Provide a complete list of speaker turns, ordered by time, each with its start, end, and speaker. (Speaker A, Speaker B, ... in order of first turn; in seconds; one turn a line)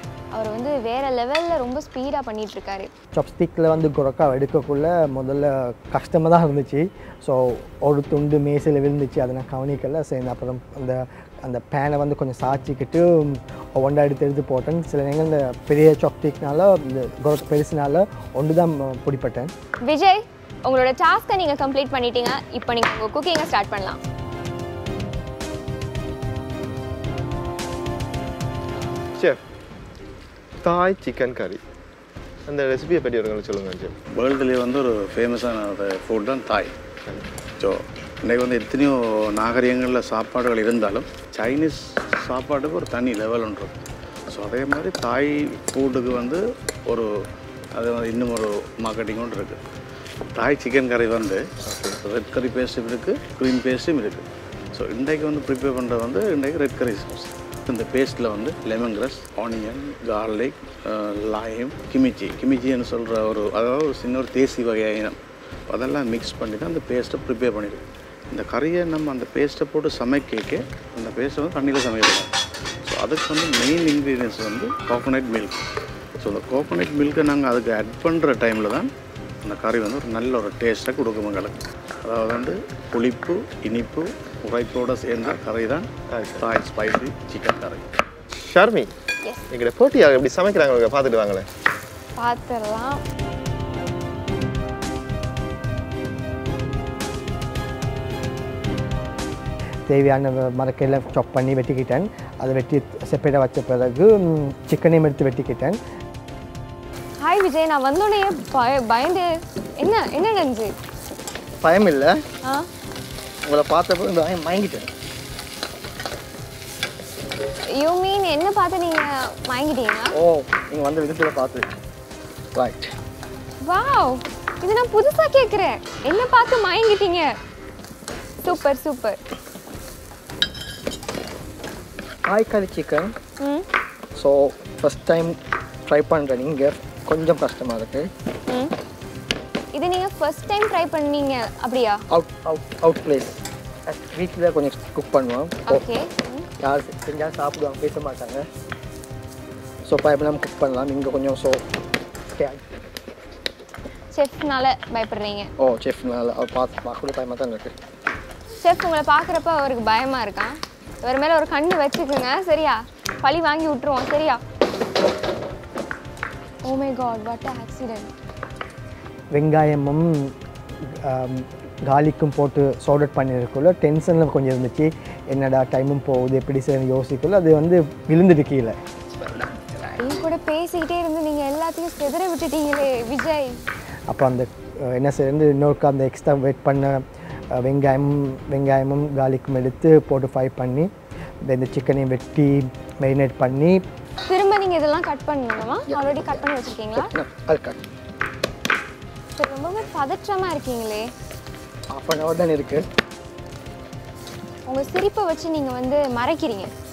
Speaker A: 0.3-2.9
Speaker B: 3.1-19.5
Speaker A: 19.9-24.0
Speaker C: 30.6-31.6
Speaker C: 32.5-33.9
Speaker D: 34.1-36.7
Speaker D: 37.6-43.7
Speaker D: 44.3-47.1
Speaker D: 47.8-49.6
Speaker D: 50.4-51.4
Speaker C: 51.6-52.0
Speaker D: 52.0-65.2
Speaker D: 65.7-72.3
Speaker D: 72.8-75.6
Speaker D: 76.2-78.9
Speaker D: 79.4-85.9
Speaker C: 86.1-86.5
Speaker D: 86.4-87.9
Speaker C: 88.3-88.9
Speaker C: 89.5-91.5
Speaker A: 92.2-93.0
Speaker B: 99.9-105.8
Speaker A: 107.2-110.7
Speaker B: 111.6-112.2
Speaker B: 113.4-114.9
Speaker A: 117.8-120.1
Speaker B: 120.1-121.7
Speaker B: 122.5-122.9
Speaker A: 123.7-127.4
Speaker A: 128.4-129.2
Speaker B: 132.3-133.1
Speaker A: 133.4-133.7
Speaker B: 134.2-138.1
Speaker A: 138.5-138.7
Speaker A: 139.7-142.0
Speaker B: 142.1-145.8
Speaker A: 145.7-146.5
Speaker B: 146.6-148.5
Speaker B: 149.8-151.6
Speaker B: 152.3-152.7
Speaker A: 154.1-155.5
Speaker B: 155.6-157.8
Speaker A: 158.6-164.4
Speaker A: 166.6-168.1
Speaker B: 169.3-178.8
Speaker A: 180.0-183.6
Speaker B: 184.1-190.9
Speaker B: 191.4-193.8
Speaker A: 194.3-197.1
Speaker B: 195.9-197.8
Speaker A: 199.4-201.1
Speaker B: 201.9-202.9
Speaker A: 204.7-206.7